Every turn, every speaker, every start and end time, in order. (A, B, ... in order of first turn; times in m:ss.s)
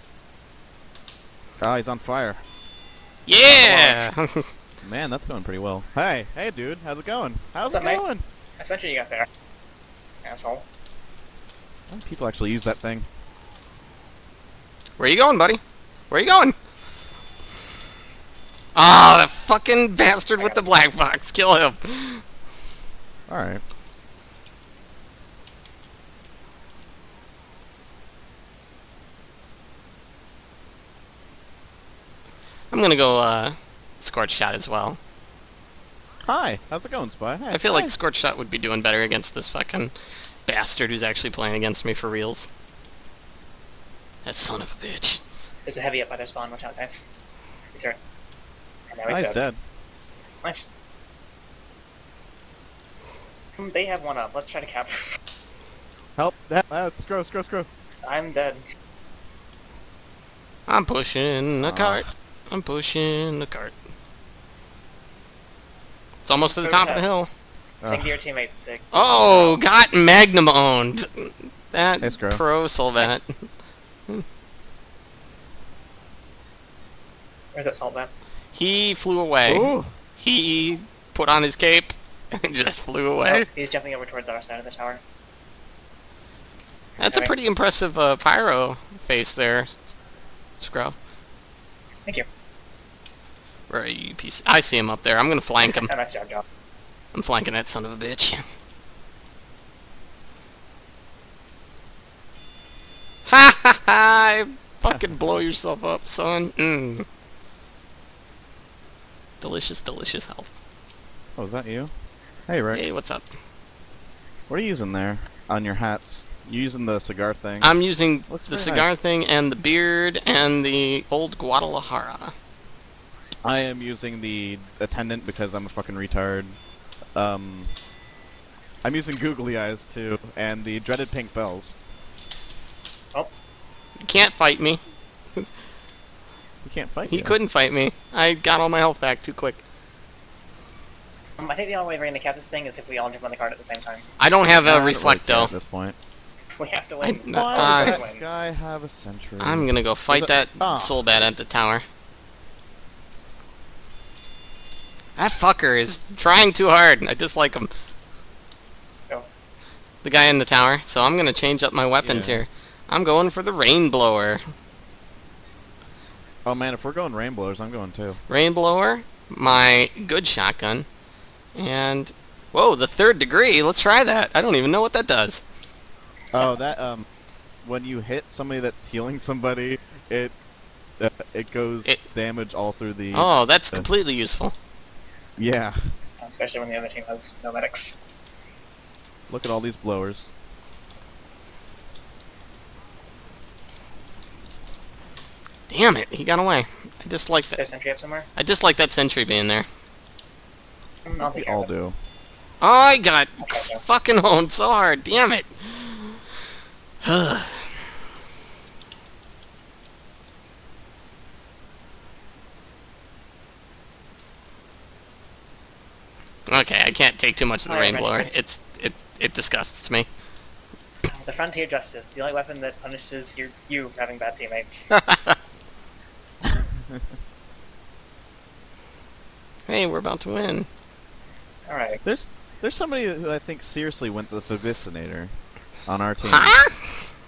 0:01.6-0:02.4 A
0:03.3-0:04.5 B
0:03.4-0:04.1 A
0:04.8-0:08.2 A
0:07.6-0:08.0 C
0:08.6-0:09.3 C
0:10.2-0:10.6 C
0:11.9-0:13.1 A
0:15.0-0:16.6 B
0:18.8-0:22.2 B
0:20.4-0:20.7 C
0:23.3-0:23.6 A
0:32.7-0:35.0 B
0:36.2-0:38.0 A
0:37.5-0:39.9 B
0:40.5-0:42.5 B
0:44.2-0:45.2 B
0:45.7-0:47.1 C
0:47.7-0:48.0 C
0:48.9-0:49.4 C
0:49.1-0:49.6 A
0:50.4-0:50.7 C
0:53.6-0:55.0 C
0:56.2-0:57.7 A
0:58.0-0:58.6 C
1:00.7-1:03.7 B
1:01.6-1:02.0 A
1:06.2-1:07.3 B
1:06.4-1:07.1 C
1:07.8-1:08.2 A
1:07.8-1:09.6 C
1:08.9-1:13.5 B
1:12.0-1:12.4 A
1:17.5-1:18.1 C
1:18.5-1:23.5 B
1:19.5-1:19.9 A
1:23.2-1:25.0 C
1:27.0-1:29.8 B
1:27.0-1:27.3 C
1:30.6-1:31.0 B
1:33.7-1:35.9 B
1:35.6-1:36.4 C
1:37.1-1:38.4 B
1:43.3-1:47.0 B
1:44.9-1:45.5 A
1:49.4-1:50.5 B
1:51.4-1:51.9 A
1:52.5-1:52.8 A
1:52.7-1:53.3 B
1:54.5-1:57.7 A
1:57.6-2:02.3 B
1:58.3-1:58.9 A
2:03.4-2:06.6 A
2:07.2-2:07.7 A
2:08.8-2:11.8 A
2:14.0-2:14.8 B
2:16.6-2:17.4 A
2:17.0-2:19.6 B
2:21.4-2:24.1 C
2:24.2-2:25.5 B
2:24.6-2:26.0 A
2:26.6-2:28.3 C
2:27.0-2:28.0 B
2:27.3-2:31.0 A
2:29.4-2:31.8 B
2:35.2-2:37.7 B
2:40.0-2:44.4 B
2:42.0-2:42.4 A
2:46.4-2:48.2 A
2:48.3-2:50.9 B
2:51.6-2:55.4 B
2:56.3-2:56.6 C
2:56.3-2:57.0 A
2:57.6-3:00.4 A
3:01.0-3:03.9 A
3:03.1-3:04.6 B
3:05.4-3:05.8 A
3:06.2-3:08.0 C
3:09.3-3:10.3 A
3:15.7-3:17.6 B
3:17.6-3:18.3 C
3:18.4-3:19.7 B
3:21.0-3:21.7 C
3:21.2-3:22.0 A
3:22.6-3:26.2 B
3:23.4-3:23.8 C
3:27.0-3:27.7 B
3:36.5-3:40.1 B
3:37.6-3:38.4 C
3:41.1-3:44.9 C
3:44.9-3:45.4 B
3:49.7-3:50.7 B
3:51.7-3:52.0 C
3:52.0-3:55.3 A
3:55.9-3:56.6 A
3:56.2-3:56.8 B